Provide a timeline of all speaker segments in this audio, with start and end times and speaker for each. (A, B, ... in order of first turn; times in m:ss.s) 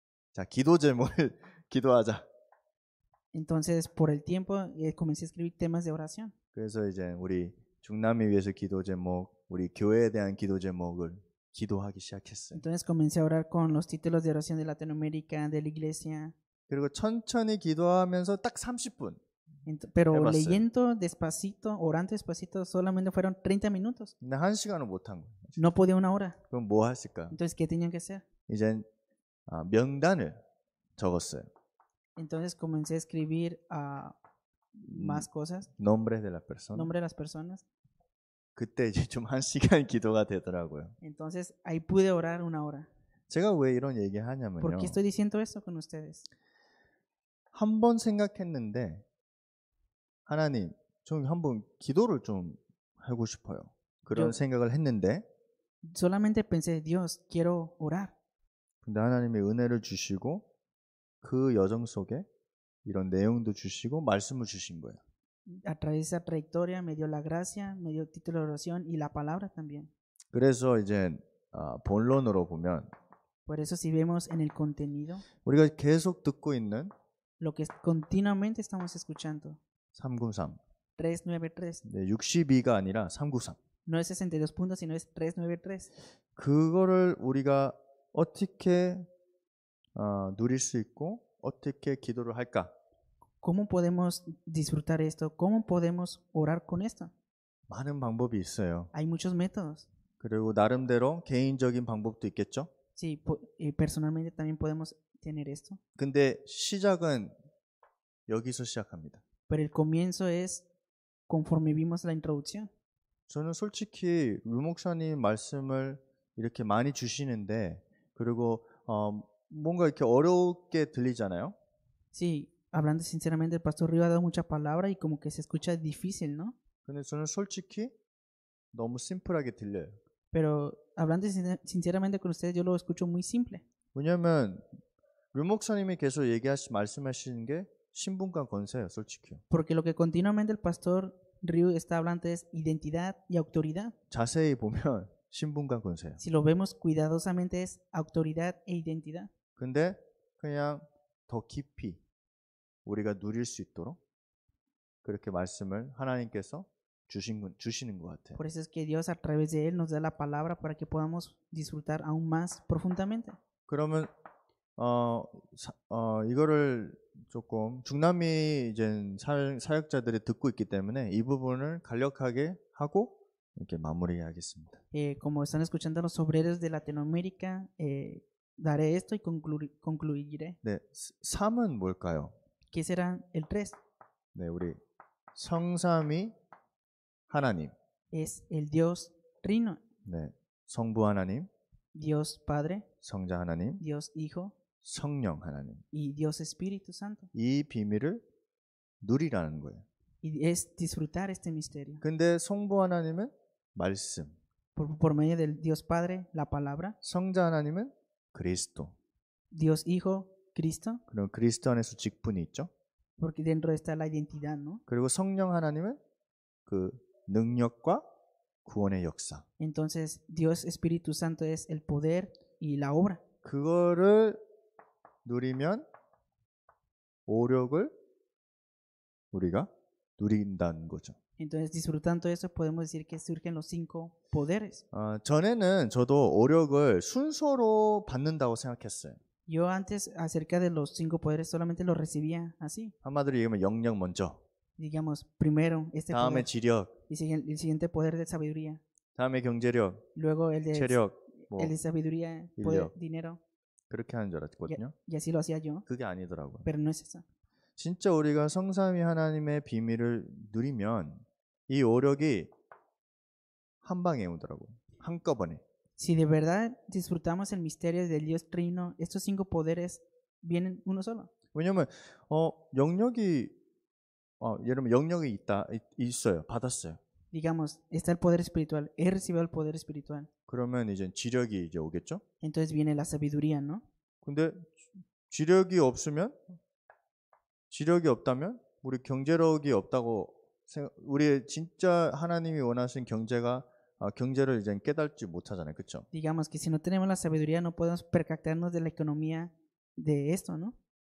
0:00.3-0:02.3 A
0:03.3-0:06.3 B
0:06.5-0:12.6 A
0:12.5-0:16.3 B
0:16.7-0:19.2 A
0:19.6-0:24.1 B
0:20.1-0:20.6 A
0:24.2-0:25.6 A
0:25.6-0:26.4 B
0:26.5-0:27.4 A
0:27.3-0:28.2 B
0:28.5-0:28.8 A
0:29.5-0:30.4 A
0:31.0-0:31.5 A
0:32.2-0:34.2 B
0:34.8-0:36.9 A
0:34.9-0:35.7 B
0:36.7-0:37.6 B
0:38.6-0:40.9 A
0:41.0-0:42.9 B
0:43.3-0:45.0 A
0:44.6-0:46.3 B
0:47.5-0:49.0 A
0:50.2-0:55.2 A
0:55.8-0:58.1 B
0:58.8-1:00.5 A
1:01.2-1:02.2 A
1:02.8-1:05.0 A
1:05.5-1:09.9 B
1:10.3-1:12.9 A
1:13.4-1:15.2 B
1:15.4-1:16.9 A
1:17.4-1:19.6 B
1:19.9-1:20.6 A
1:21.0-1:21.8 B
1:21.8-1:23.6 A
1:23.8-1:25.9 B
1:26.4-1:29.1 A
1:29.9-1:32.7 A
1:33.4-1:37.1 B
1:37.7-1:38.9 A
1:38.9-1:39.9 B
1:40.2-1:42.7 A
1:43.0-1:45.8 B
1:46.0-1:47.3 A
1:48.3-1:49.2 A
1:49.5-1:50.6 B
1:51.3-1:52.7 B
1:53.3-2:01.6 A
2:02.1-2:06.6 B
2:06.8-2:07.9 A
2:08.7-2:10.0 A
2:10.3-2:13.6 B
2:13.9-2:14.6 A
2:15.3-2:19.4 A
2:19.5-2:23.9 B
2:24.1-2:26.2 A
2:26.2-2:29.3 B
2:29.6-2:32.0 A
2:32.8-2:34.0 A
2:35.0-2:38.4 A
2:38.4-2:43.4 B
2:43.7-2:44.1 A
2:44.8-2:54.8 A
2:54.9-3:00.6 B
3:00.6-3:02.3 A
3:02.7-3:03.8 B
3:04.3-3:04.8 A
3:05.3-3:06.3 A
3:07.3-3:07.7 A
3:08.1-3:09.8 B
3:10.0-3:11.5 A
3:11.9-3:12.9 B
3:13.0-3:13.8 A
3:13.8-3:14.5 B
3:14.8-3:15.8 A
3:15.9-3:17.3 B
3:17.3-3:18.2 A
3:19.0-3:19.8 A
3:20.2-3:22.0 B
3:22.0-3:24.4 A
3:24.8-3:27.0 B
3:27.0-3:28.9 A
3:29.5-3:31.0 B
3:31.1-3:32.7 A
3:33.2-3:34.8 B
3:34.9-3:36.0 A
3:36.6-3:38.0 A
3:38.6-3:39.4 A
3:39.6-3:43.2 B
3:43.4-3:44.4 A
3:45.2-3:45.8 A
3:47.3-3:47.9 A
3:49.3-3:51.2 A
3:51.4-3:54.8 B
3:54.9-3:59.2 A
3:59.5-4:02.9 B
4:03.0-4:04.4 A
4:04.8-4:06.5 B
4:06.1-4:06.9 A
4:07.1-4:08.8 B
4:09.2-4:10.0 A
4:10.2-4:13.4 B
4:10.7-4:11.7 A
4:12.6-4:12.9 A
4:13.9-4:14.9 A
4:14.7-4:15.8 B
4:15.8-4:16.7 A
4:16.6-4:17.2 B
4:17.8-4:22.5 A
4:23.8-4:25.6 A
4:26.0-4:31.3 B
4:31.5-4:33.5 A
4:34.4-4:37.0 A
4:37.3-4:40.3 B
4:40.5-4:42.2 A
4:42.4-4:43.8 B
4:44.2-4:44.8 A
4:45.3-4:46.4 A
4:47.7-4:56.1 A
4:56.1-5:00.7 B